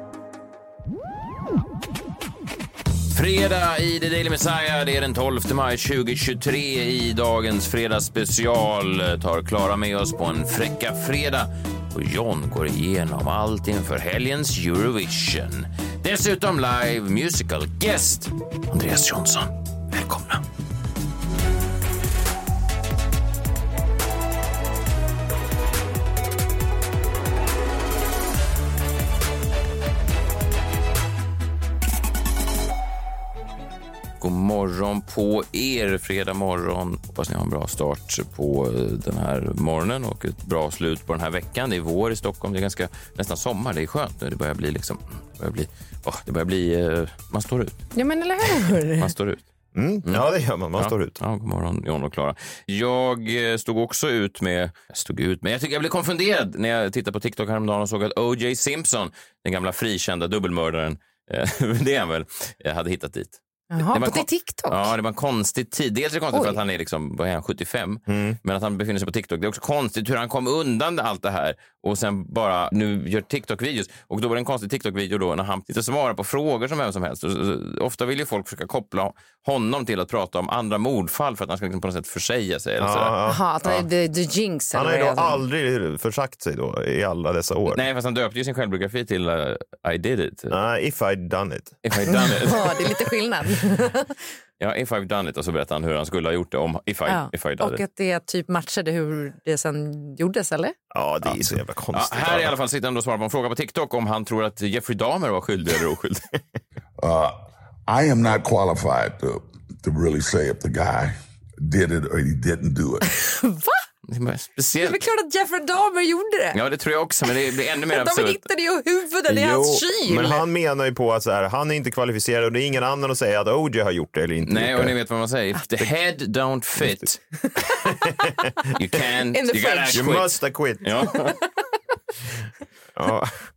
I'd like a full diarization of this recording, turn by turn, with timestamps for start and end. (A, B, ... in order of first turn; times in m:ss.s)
0:03.1-0:20.4 A
0:34.2-0:47.8 A
0:48.0-0:49.1 B
0:49.0-0:49.4 A
0:49.8-0:51.2 C
0:50.8-1:23.2 A
1:03.7-1:04.9 B
1:08.1-1:08.4 C
1:22.8-1:23.9 C
1:23.3-1:25.4 B
1:24.7-1:27.8 C
1:27.7-1:30.6 A
1:30.5-1:31.8 C
1:31.8-1:33.0 A
1:32.1-1:34.1 B
1:34.6-1:37.8 A
1:37.1-1:40.8 B
1:40.9-1:42.5 C
1:41.2-1:46.3 A
1:47.0-1:53.1 D
1:53.2-1:53.8 B
1:54.1-1:55.0 A
1:54.8-1:56.6 B
1:56.5-1:58.4 A
1:57.9-2:00.4 B
1:59.3-2:05.0 C
2:04.4-2:07.2 A
2:07.8-2:08.3 C
2:08.8-2:10.3 A
2:09.3-2:10.0 B
2:09.9-2:11.1 C
2:10.8-2:11.3 A
2:13.0-2:13.4 C